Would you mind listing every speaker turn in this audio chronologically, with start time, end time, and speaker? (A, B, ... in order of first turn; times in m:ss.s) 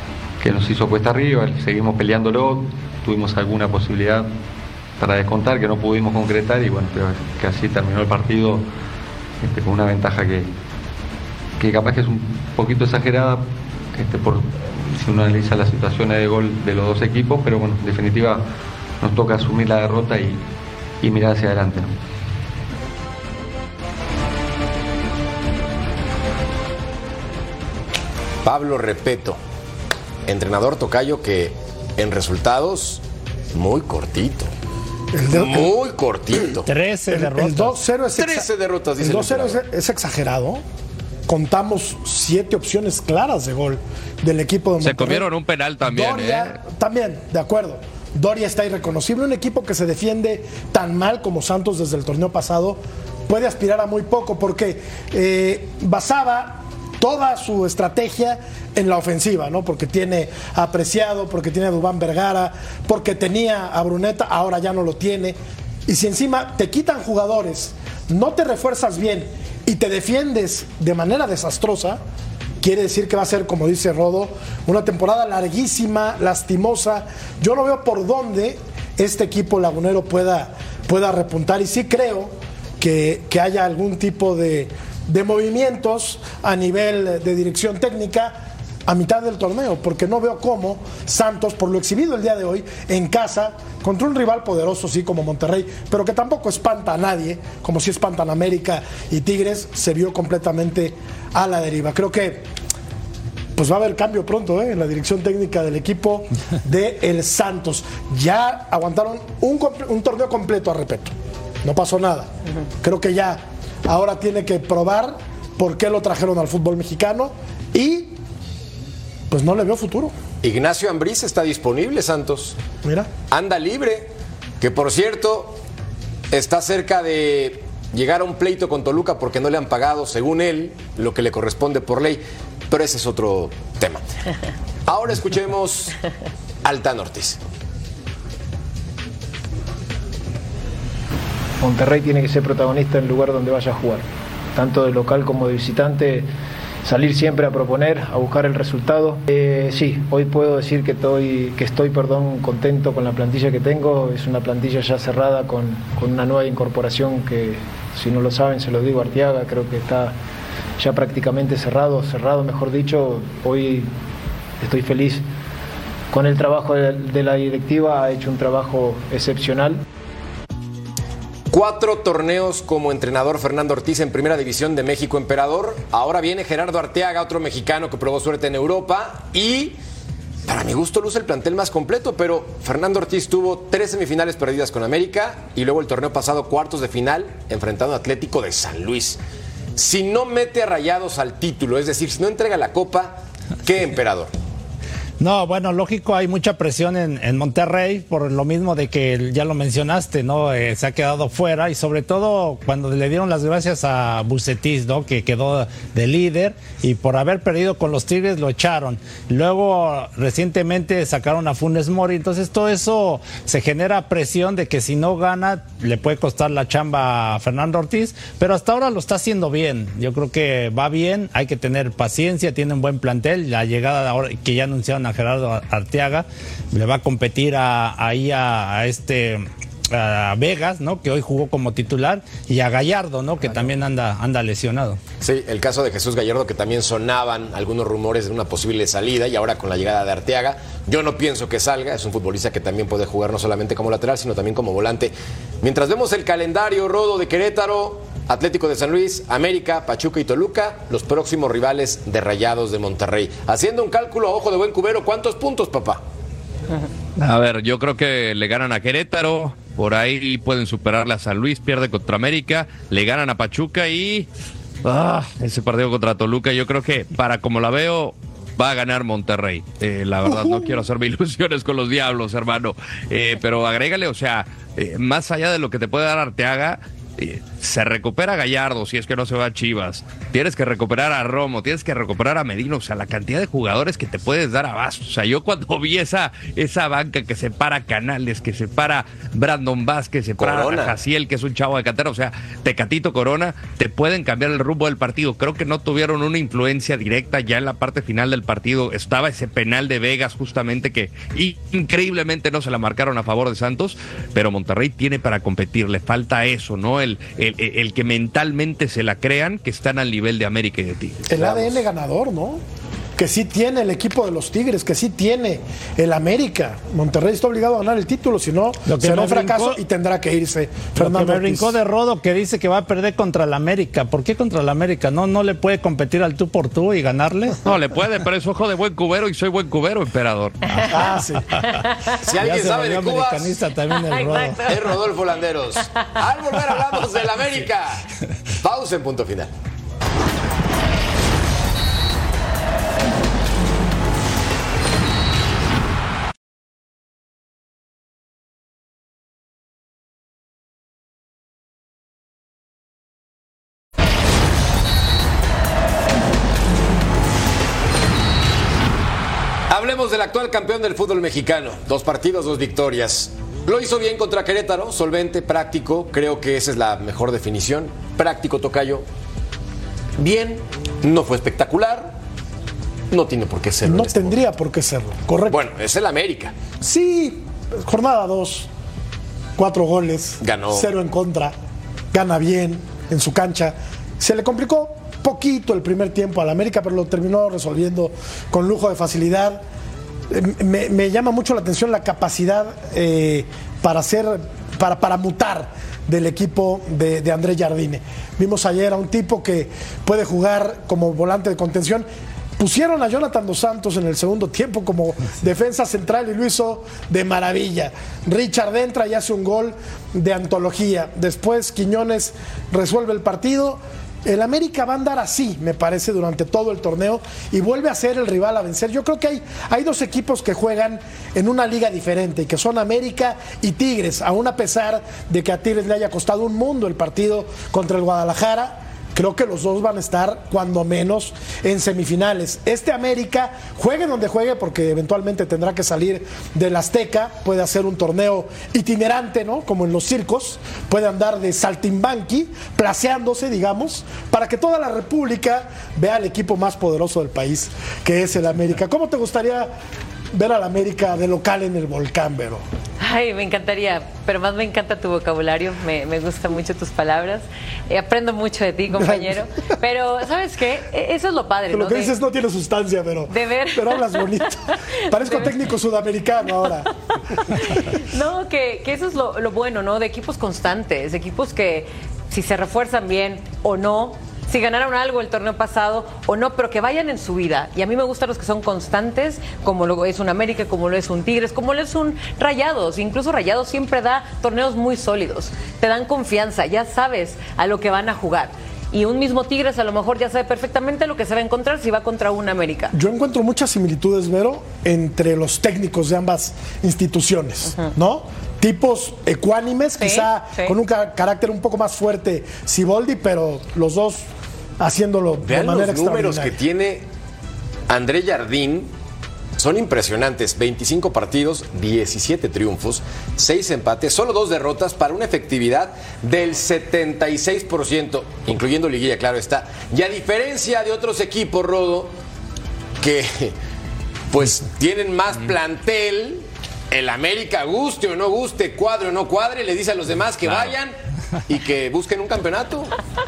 0:00.4-0:04.3 A
0:05.0-0:08.7 A
0:09.4-0:10.5 A
0:11.6-0:18.4 A
0:19.0-0:20.4 A
0:21.0-0:21.9 A
0:28.4-0:29.4 B
0:30.3-0:33.0 B
0:33.5-0:34.5 B
0:35.1-0:35.7 C
0:35.3-0:36.7 B
0:36.6-0:37.8 D
0:37.1-0:38.5 C
0:38.1-0:39.6 B
0:39.0-0:40.6 C
0:41.3-0:45.2 C
0:44.8-0:46.6 E
0:45.8-1:12.0 C
1:12.6-1:28.3 C
1:28.8-1:42.5 C
1:43.6-1:52.3 C
1:52.8-1:58.1 C
1:59.3-2:00.1 C
2:00.4-2:02.6 B
2:02.8-2:03.1 C
2:03.3-2:05.6 B
2:06.3-2:14.0 B
2:14.9-2:16.0 B
2:16.6-2:17.4 B
2:21.6-2:26.3 F
2:26.8-2:40.2 F
2:40.8-2:43.9 F
2:44.6-2:45.2 F
2:46.1-2:49.8 F
2:51.5-2:59.8 B
3:00.4-3:09.2 B
3:09.8-3:14.3 B
3:15.2-3:55.0 D
3:55.2-4:16.0 B
4:17.2-4:24.3 E
4:24.8-5:11.4 E
4:30.3-4:30.7 C
4:50.4-4:50.9 B
5:11.3-5:12.6 C
5:11.4-5:11.7 B
5:13.2-5:21.8 C
5:18.8-5:19.8 D
5:21.0-5:27.6 D
5:27.6-5:30.6 E
5:30.9-5:31.4 C
5:31.8-5:32.2 G
5:32.2-5:33.5 B
5:32.4-5:34.6 D
5:33.9-5:34.8 G
5:34.7-5:38.0 B
5:38.6-5:39.5 B
5:59.7-6:09.0 B
6:10.2-6:12.1 B
6:13.1-6:14.4 B
6:13.8-6:15.6 C
6:15.5-6:16.5 B
6:16.8-6:18.7 C
6:19.6-6:21.5 C
6:20.4-6:20.9 B
6:22.1-6:29.6 C
6:30.3-6:42.1 C
6:42.6-7:29.7 C
7:30.3-7:32.6 C
7:33.0-7:42.1 G
7:38.9-7:39.4 C
7:41.7-7:46.9 C
7:43.3-7:45.6 G
7:47.5-8:12.9 G
8:12.9-8:24.2 C
8:20.0-8:20.7 G
8:24.8-8:26.6 C
8:25.4-8:27.0 B
8:27.9-8:28.9 B
8:29.6-8:42.1 B
8:43.0-8:43.5 B
8:44.3-8:50.9 B
8:50.4-8:50.7 E
8:51.5-8:52.9 B